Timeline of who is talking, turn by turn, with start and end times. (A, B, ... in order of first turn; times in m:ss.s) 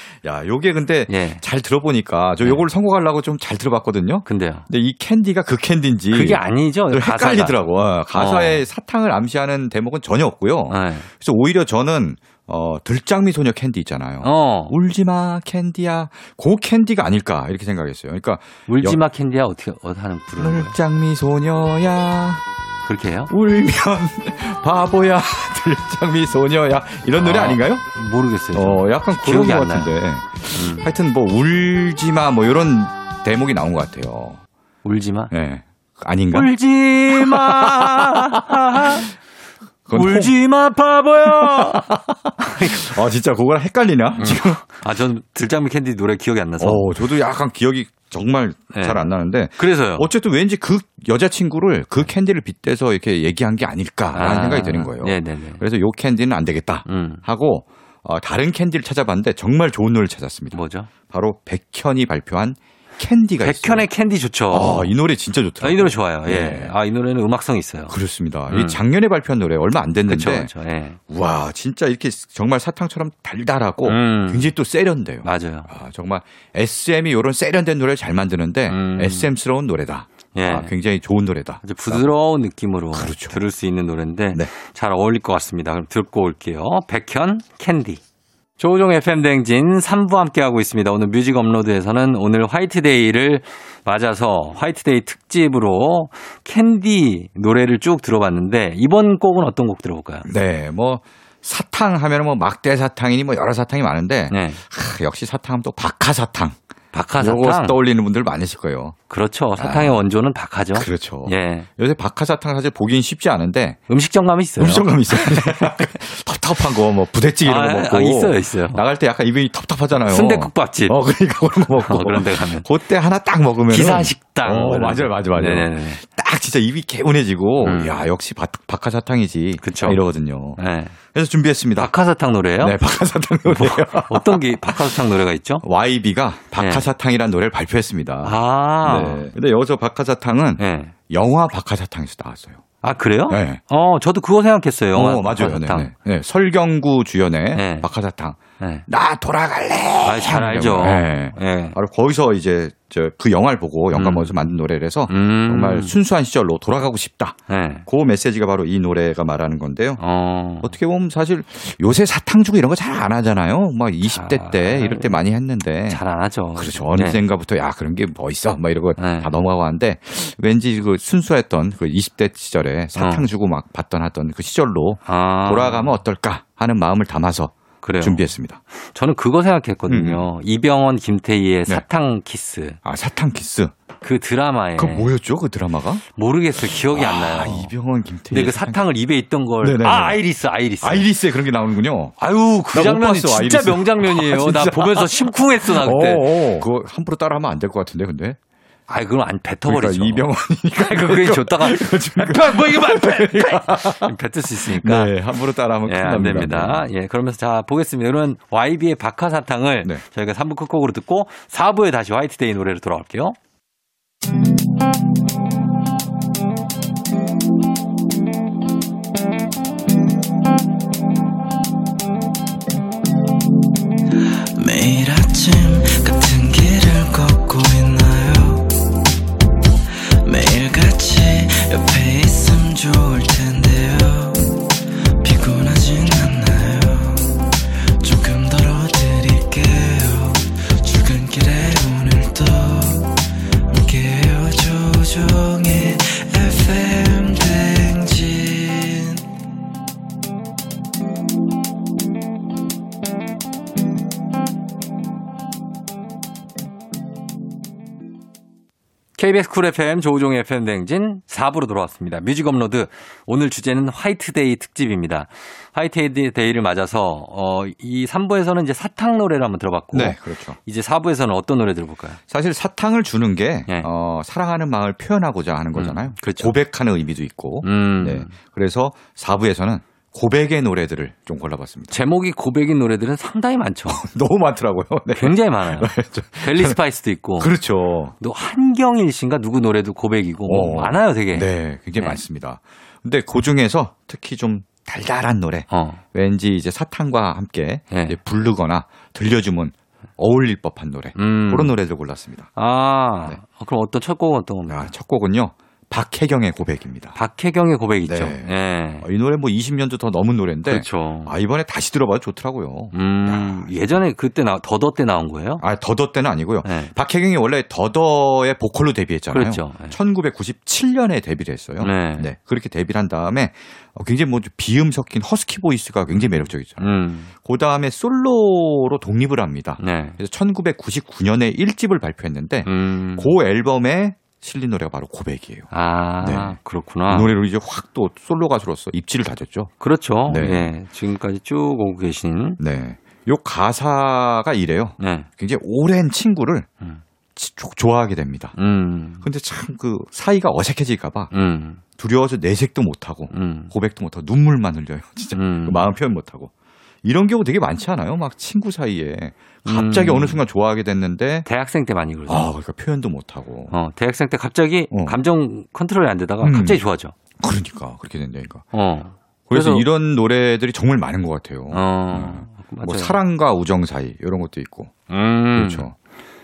0:00.2-0:19.0 A
0:01.1-0:01.4 B
0:04.2-0:04.7 B
0:06.1-0:07.6 B
0:08.1-0:08.6 B
0:10.7-0:11.1 B
0:14.2-0:14.8 B
0:18.7-0:20.8 B
0:20.4-0:22.4 A
0:22.9-0:23.3 B
0:23.3-0:27.8 A
0:27.2-0:29.9 B
0:28.5-0:34.4 A
0:30.5-0:30.9 B
0:34.8-0:35.3 B
0:35.3-0:36.5 A
0:36.3-0:39.1 B
0:37.1-0:39.1 A
0:39.9-0:40.3 A
0:39.9-0:41.9 B
0:41.2-0:44.6 A
0:42.4-0:43.0 B
0:44.2-0:46.9 B
0:46.6-1:03.9 A
0:48.7-0:49.0 B
0:49.6-0:50.1 B
0:54.1-0:55.6 B
0:56.9-0:57.2 B
1:00.5-1:00.9 B
1:03.4-1:04.9 B
1:04.5-1:06.7 A
1:05.6-1:08.0 B
1:07.9-1:10.5 A
1:08.5-1:08.8 B
1:10.1-1:11.0 B
1:11.1-1:22.1 A
1:13.8-1:14.5 B
1:15.2-1:15.7 B
1:18.7-1:19.3 B
1:20.3-1:20.7 B
1:21.6-1:28.0 B
1:22.9-1:23.4 A
1:28.6-1:40.3 B
1:40.2-1:46.6 A
1:44.3-1:44.6 B
1:46.9-1:47.8 B
1:47.2-1:49.0 A
1:49.1-1:51.7 B
1:49.6-1:50.0 A
1:50.8-1:53.8 A
1:53.9-1:55.9 B
1:54.6-2:10.6 A
1:57.4-1:58.8 B
1:59.9-2:01.0 B
2:01.8-2:02.7 B
2:03.7-2:06.0 B
2:07.6-2:08.0 B
2:09.6-2:10.0 B
2:10.6-2:11.0 B
2:11.1-2:11.9 A
2:11.8-2:12.8 B
2:12.6-2:15.0 A
2:13.5-2:15.6 B
2:15.6-2:22.6 A
2:16.6-2:16.9 B
2:18.2-2:19.3 B
2:20.6-2:20.9 B
2:22.8-2:25.9 B
2:23.3-2:23.6 A
2:24.9-2:40.0 A
2:27.5-2:27.9 B
2:28.6-2:28.9 B
2:30.0-2:31.8 B
2:34.0-2:34.3 B
2:35.1-2:36.0 B
2:37.5-2:37.9 B
2:40.0-2:40.7 B
2:40.6-2:46.0 A
2:44.1-2:45.2 B
2:45.9-2:47.2 B
2:46.6-2:58.6 A
2:49.0-2:49.3 B
2:53.0-2:53.3 B
2:55.0-2:55.9 B
2:57.8-2:58.2 B
2:58.9-3:02.8 B
2:59.9-3:00.3 A
3:02.8-3:03.7 A
3:04.0-3:05.1 B
3:04.8-3:06.0 A
3:06.1-3:07.7 B
3:06.7-3:08.8 A
3:08.3-3:11.1 B
3:09.6-3:10.2 A
3:10.8-3:12.2 A
3:12.2-3:16.7 B
3:12.7-3:18.4 A
3:18.9-3:20.3 B
3:19.7-3:24.2 A
3:20.8-3:25.2 B
3:24.7-3:26.8 A
3:25.9-3:33.4 B
3:44.6-3:48.9 C
3:50.2-3:57.5 C
3:58.0-4:09.2 C
4:19.2-4:32.2 B
4:29.9-4:30.6 A
4:32.3-4:42.0 A
4:35.8-4:36.6 B
4:37.6-4:38.3 B
4:41.9-4:44.0 B
4:43.9-4:46.8 A
4:45.2-4:47.5 B
4:47.4-4:48.1 A
4:48.2-4:52.2 B
4:50.5-5:02.5 A
4:55.7-4:56.0 B
4:57.9-4:58.2 B
5:01.2-5:01.8 B
5:02.6-5:04.9 B
5:04.7-5:07.2 A
5:07.2-5:09.1 B
5:08.0-5:13.7 A
5:10.7-5:11.3 B
5:12.9-5:15.6 B
5:15.6-5:26.9 A
5:16.6-5:16.9 B
5:19.3-5:20.0 B
5:21.8-5:22.3 B
5:26.1-5:27.3 B
5:27.4-5:35.7 A
5:29.8-5:30.2 B
5:32.6-5:33.3 B
5:35.7-5:37.3 B
5:36.2-5:36.6 A
5:37.1-5:39.7 A
5:39.8-5:42.6 B
5:40.3-5:40.7 A
5:42.6-5:46.7 A
5:45.0-5:45.3 B
5:47.4-5:48.6 A
5:48.6-5:49.2 B
5:49.2-5:51.3 A
5:51.3-5:51.8 B
5:52.0-5:56.5 A
5:53.3-5:53.7 B
5:55.3-5:55.9 B
5:57.0-6:01.5 A
5:59.6-6:00.4 B
6:01.5-6:02.5 B
6:02.3-6:03.7 A
6:03.7-6:07.1 B
6:04.9-6:05.2 A
6:06.4-6:06.8 A
6:07.4-6:08.7 A
6:08.7-6:09.9 B
6:09.5-6:15.0 A
6:11.7-6:13.2 B
6:15.1-6:15.9 B
6:15.5-6:15.9 A